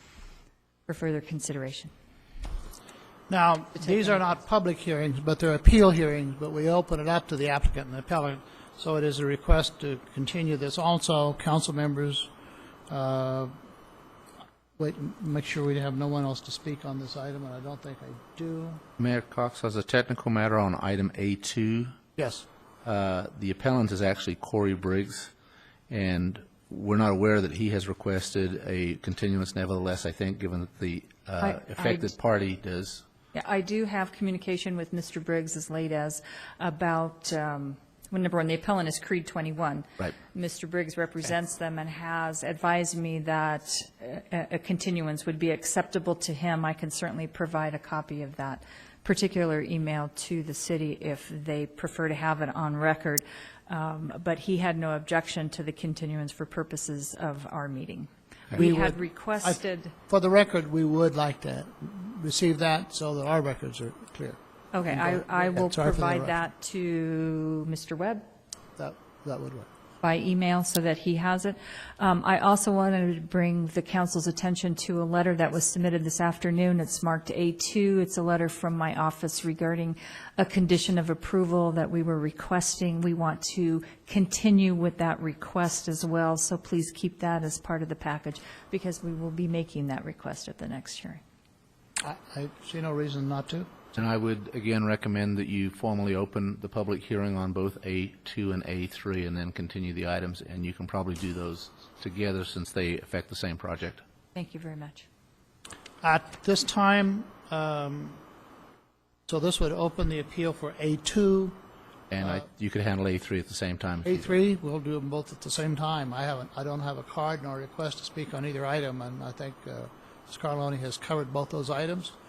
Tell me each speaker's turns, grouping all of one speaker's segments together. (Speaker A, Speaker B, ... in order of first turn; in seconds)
Speaker A: 0.9-1.9, 3.8-4.4, 31.4-32.1, 33.3-59.9, 64.7-68.2, 70.0-91.2, 104.3-105.1
Speaker B: 3.3-12.3, 12.9-13.5, 14.8-18.8, 22.2-22.4, 58.5-66.4, 68.8-69.7, 92.0-93.7, 106.0-108.2, 109.3-111.6, 114.0-122.2
Speaker C: 19.0-21.9, 22.8-25.3, 25.9-33.0, 94.0-104.0, 112.1-114.4